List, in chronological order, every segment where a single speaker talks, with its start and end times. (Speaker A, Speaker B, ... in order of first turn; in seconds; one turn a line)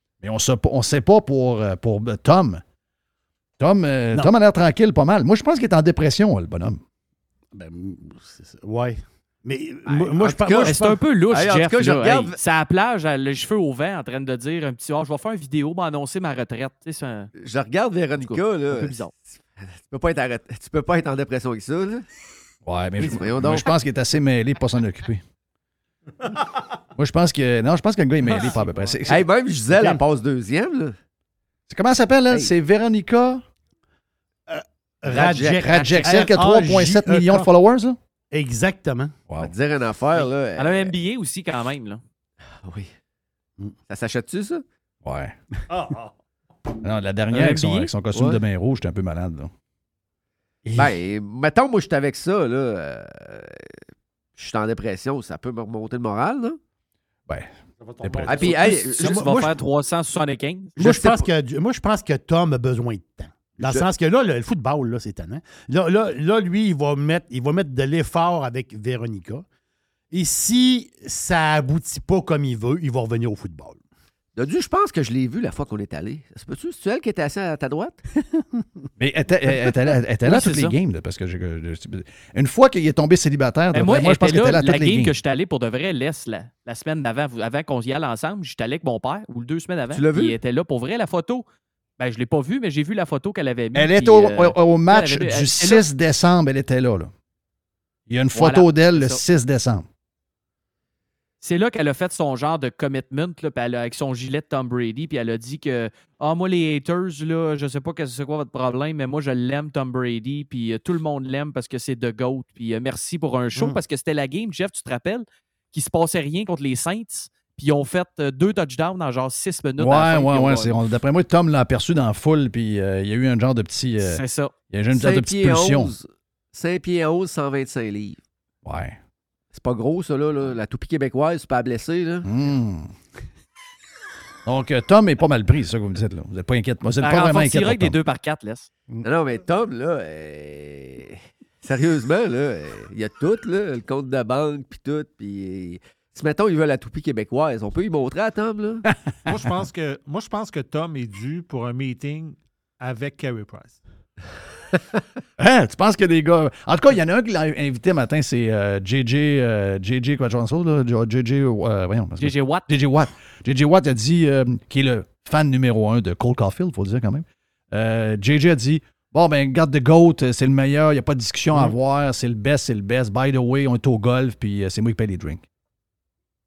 Speaker A: 0.2-2.6
Speaker A: 3.6-6.8
Speaker B: 7.5-11.0
Speaker C: 9.9-12.4
Speaker D: 10.6-17.3
Speaker C: 17.4-22.1
Speaker D: 18.2-19.1
Speaker A: 22.6-25.2
Speaker C: 23.0-23.8
Speaker A: 26.9-29.3
Speaker C: 29.1-31.0
Speaker A: 31.7-33.4
Speaker B: 34.5-37.5
Speaker C: 35.1-36.2
Speaker A: 35.6-38.0
Speaker B: 38.3-39.1
Speaker C: 39.4-40.9
Speaker D: 40.5-42.0
Speaker C: 42.5-42.9
Speaker C: 43.9-44.6
Speaker A: 45.0-45.4
Speaker A: 46.8-49.5
Speaker D: 47.3-47.9
Speaker C: 48.1-48.4
Speaker A: 50.6-51.0
Speaker C: 50.8-53.7
Speaker C: 54.4-56.6
Speaker A: 57.3-58.7
Speaker C: 58.2-59.2
Speaker B: 58.5-59.6
Speaker D: 58.5-61.2
Speaker B: 60.8-69.5
Speaker C: 63.6-63.9
Speaker B: 70.1-73.8
Speaker C: 74.4-78.0
Speaker B: 78.4-78.6
Speaker A: 79.0-85.2
Speaker D: 80.2-80.8
Speaker D: 83.7-91.5
Speaker C: 89.9-90.4
Speaker D: 92.0-95.8
Speaker A: 93.7-97.1
Speaker A: 98.1-99.9
Speaker D: 98.3-99.2
Speaker D: 101.4-120.8
Speaker A: 119.8-125.9
Speaker D: 124.0-124.5
Speaker C: 124.9-128.2
Speaker A: 128.7-129.0
Speaker C: 129.5-132.3
Speaker A: 132.2-132.9
Speaker A: 134.5-138.0
Speaker D: 137.0-138.7
Speaker C: 139.0-148.9
Speaker E: 149.3-153.8
Speaker A: 155.4-175.4
Speaker D: 162.2-162.7